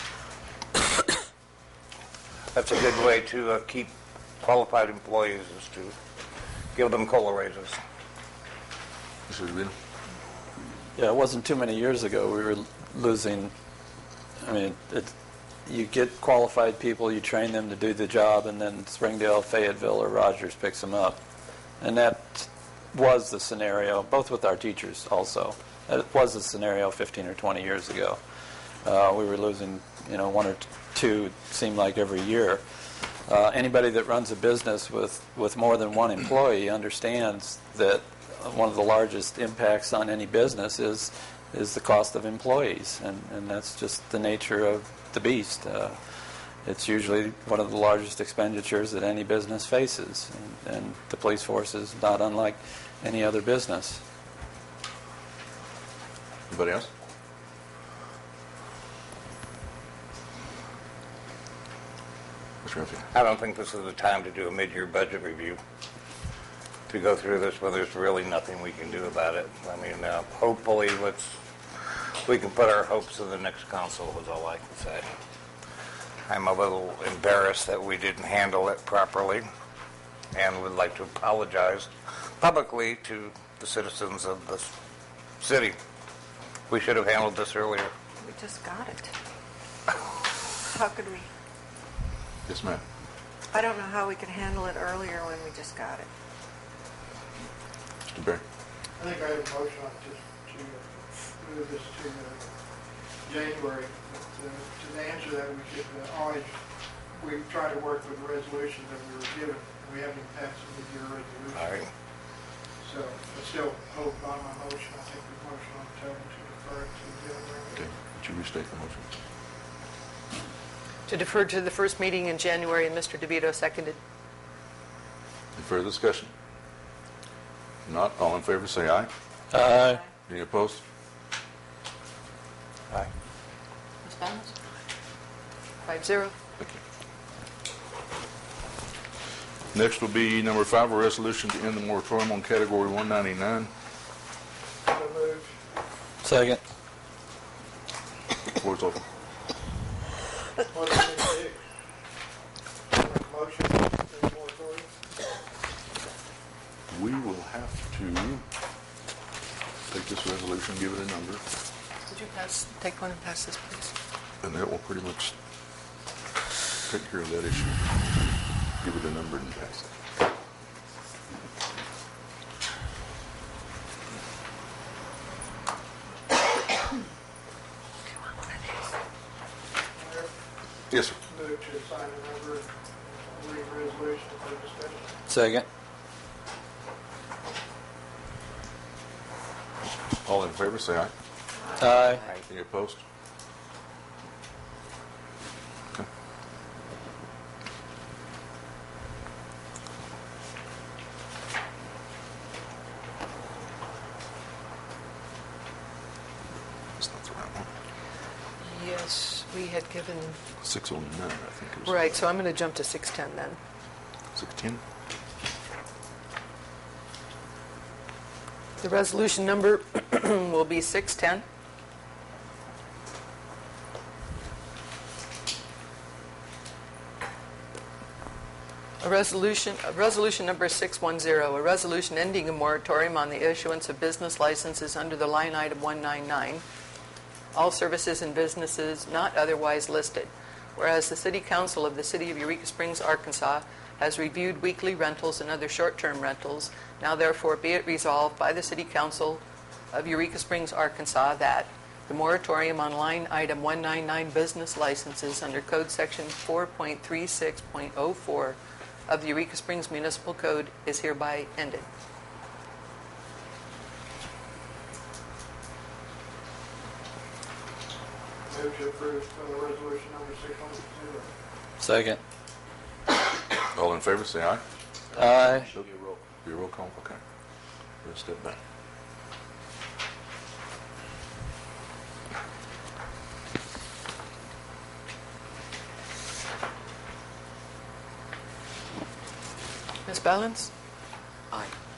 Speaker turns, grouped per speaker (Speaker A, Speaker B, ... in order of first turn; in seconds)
Speaker A: 2.5-5.9, 6.7-7.8, 63.1-65.6, 66.9-71.3, 72.2-75.1, 76.3-79.5, 80.3-84.7, 85.4-85.8, 86.7-87.9, 111.5-111.8
Speaker B: 9.3-9.7, 56.5-56.9, 62.6-63.0, 92.5-92.8, 98.1-98.4, 117.8-119.1, 125.5-126.3, 127.8-129.1, 130.3-130.8, 139.7-143.7, 148.5-149.0, 156.9-158.4, 159.9-161.4, 164.4-165.3, 166.9-169.9, 180.9-181.2, 190.2-191.1, 192.4-193.0, 207.0-207.7, 210.6-212.2, 214.3-214.8, 273.7-274.6, 275.2-277.2, 278.0-278.6
Speaker C: 10.9-13.5, 14.4-15.1, 15.7-21.2, 21.8-28.2, 28.8-46.0, 46.6-54.0, 129.5-130.0, 146.2-146.6, 185.3-185.7, 191.8-192.2, 271.8-272.2, 275.1-275.7
Speaker D: 88.2-89.1, 90.0-91.3, 93.5-96.1
Speaker E: 99.0-102.5, 103.2-106.6, 107.1-111.8, 112.8-117.8, 144.8-145.5, 150.7-151.6, 152.9-154.9, 179.9-180.3, 181.3-185.1, 268.5-271.3
Speaker F: 121.1-124.0, 134.0-134.5, 135.8-136.3, 162.1-163.9, 208.6-210.4, 211.8-213.6, 218.8-221.4, 229.0-236.6, 237.5-261.9, 290.1-290.7